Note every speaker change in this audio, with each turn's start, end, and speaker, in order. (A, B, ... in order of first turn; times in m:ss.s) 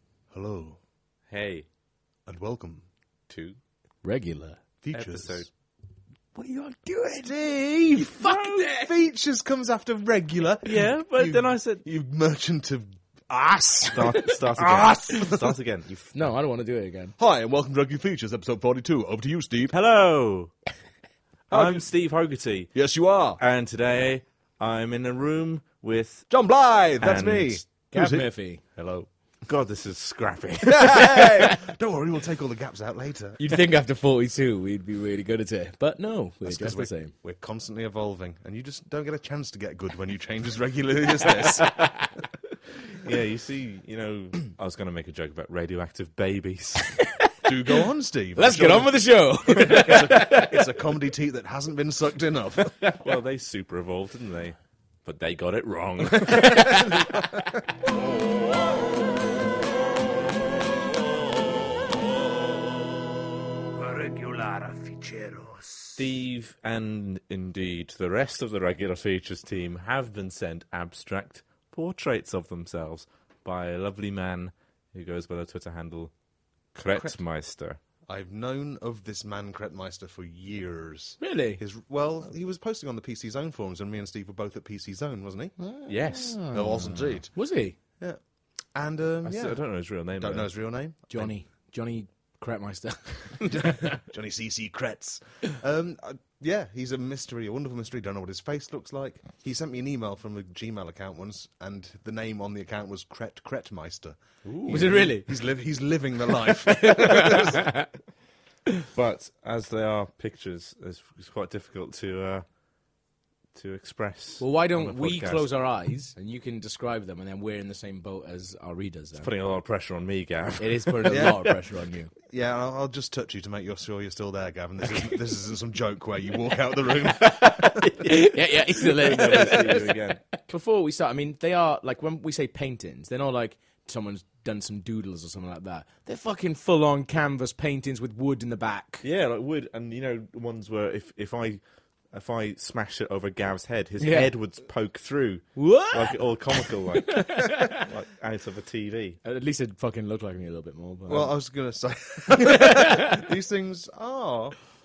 0:00.3-0:00.8 A
0:01.3-0:01.6 B
0:02.2-0:02.8 A
0:03.3-0:03.6 B
0:04.0-0:04.6 C
0:04.8-0:05.4 A
0:04.9-0:05.5 B
0:06.3-0:07.3 C
0:07.2-0:15.6 A
0:07.9-0:08.9 C
0:10.6-0:11.8 B
0:13.9-0:16.1 B
0:16.1-0:17.1 C
0:17.2-0:19.8 A
0:19.7-0:20.5 B
0:21.5-0:21.9 A
0:21.5-0:22.8 B
0:22.7-0:23.4 A
0:23.4-0:26.3 B
0:26.3-0:29.1 A
0:27.0-0:27.6 B
0:27.9-0:28.6 C
0:29.5-0:31.4 B
0:30.6-0:33.4 A
0:33.4-0:37.1 C
0:36.4-0:41.7 A
0:42.9-0:46.9 B
0:47.0-0:47.3 C
0:47.4-0:48.9 A
0:48.4-0:50.5 C
0:49.6-0:52.8 A
0:49.8-0:50.0 B
0:52.9-0:56.9 B
0:56.2-0:57.4 C
1:03.8-1:06.0 C
1:06.0-1:16.1 B
1:16.7-1:17.8 B
1:18.1-1:25.5 A
1:21.2-1:21.6 C
1:25.6-1:27.8 C
1:25.9-1:26.4 B
1:26.5-1:27.3 A
1:28.7-1:29.6 A
1:29.2-1:30.5 B
1:30.2-1:31.3 A
1:31.1-1:34.0 C
1:33.5-1:47.7 A
1:44.5-1:45.0 B
1:44.6-1:45.3 C
1:46.4-1:47.9 C
1:48.9-1:52.4 B
1:53.5-1:55.5 B
1:54.4-1:59.3 C
1:59.2-2:01.4 B
2:00.6-2:02.1 C
2:01.1-2:01.5 A
2:02.2-2:07.8 A
2:07.4-2:10.2 B
2:08.0-2:19.0 C
2:09.3-2:09.6 A
2:19.0-2:21.6 B
2:22.1-2:29.2 B
2:24.0-2:24.3 C
2:25.6-2:27.8 C
2:29.2-2:31.3 C
2:31.1-2:34.6 A
2:32.4-2:33.2 C